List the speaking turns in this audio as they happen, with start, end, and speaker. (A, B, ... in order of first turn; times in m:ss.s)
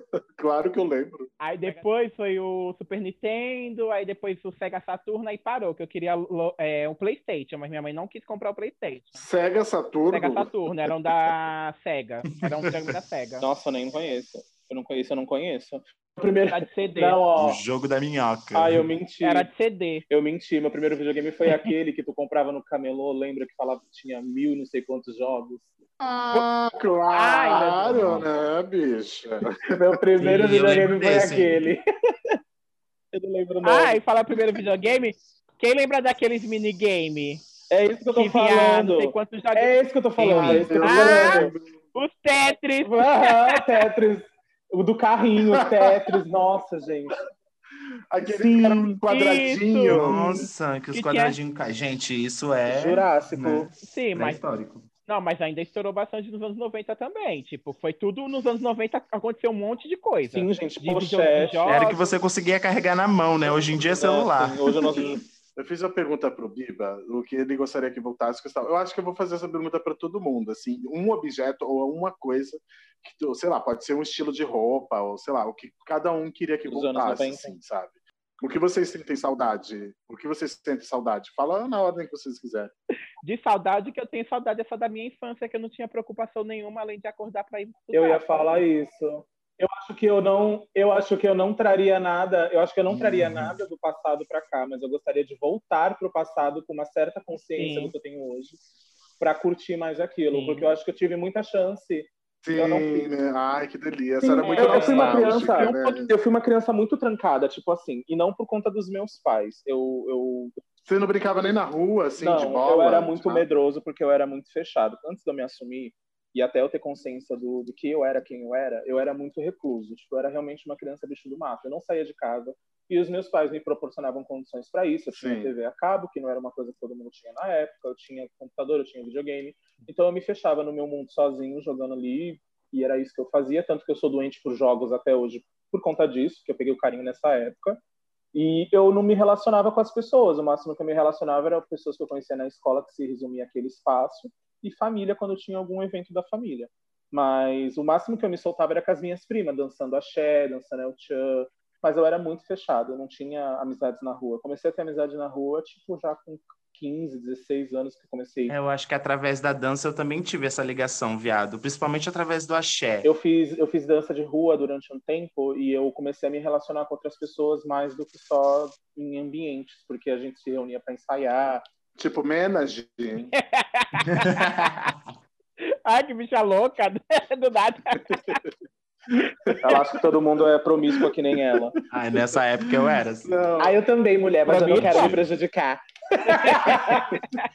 0:00.4-0:01.3 A
0:01.4-0:09.2 B
0:09.2-0:10.9 A
0:10.1-0:13.4 B
0:13.4-0:17.6 C
0:16.5-0:17.2 B
0:17.4-0:18.9 D
0:18.5-0:19.5 C
0:19.2-0:20.0 B
0:20.1-0:25.7 C
0:26.0-0:29.8 A
0:27.1-0:28.2 B
0:29.7-0:31.8 C
0:30.2-0:31.6 D
0:33.1-0:34.0 C
0:33.6-0:37.4 B
0:37.7-0:41.5 C
0:38.1-0:43.6 B
0:40.2-0:40.7 D
0:40.4-0:41.6 A
0:42.8-0:47.1 C
0:48.1-0:50.4 A
0:48.2-0:49.0 C
0:49.1-0:50.2 B
0:49.9-0:54.9 D
0:50.9-0:51.4 B
0:52.7-0:53.7 C
0:53.8-0:54.4 B
0:55.0-1:02.0 B
1:00.3-1:01.6 C
1:01.6-1:05.0 D
1:03.9-1:05.2 C
1:05.6-1:22.7 A
1:16.7-1:17.5 C
1:23.2-1:28.2 B
1:27.9-1:38.6 C
1:32.9-1:33.6 D
1:37.6-1:37.9 B
1:39.2-1:43.1 C
1:40.3-1:40.7 B
1:42.4-1:46.1 A
1:44.2-1:50.5 C
1:44.4-1:45.7 B
1:50.8-1:53.4 A
1:52.2-2:17.8 C
2:05.1-2:05.5 A
2:18.3-2:38.5 C
2:38.5-2:43.1 D
2:43.0-2:51.6 C
2:52.0-2:53.3 A
2:53.3-2:54.5 B
2:54.0-2:55.0 D
2:55.8-2:58.4 B
2:58.1-2:58.4 A
2:59.2-2:59.8 A
2:59.6-3:01.8 C
3:01.9-3:03.3 D
3:03.2-3:03.8 A
3:03.6-3:07.2 C
3:04.5-3:05.2 B
3:04.5-3:05.2 D
3:06.2-3:07.4 B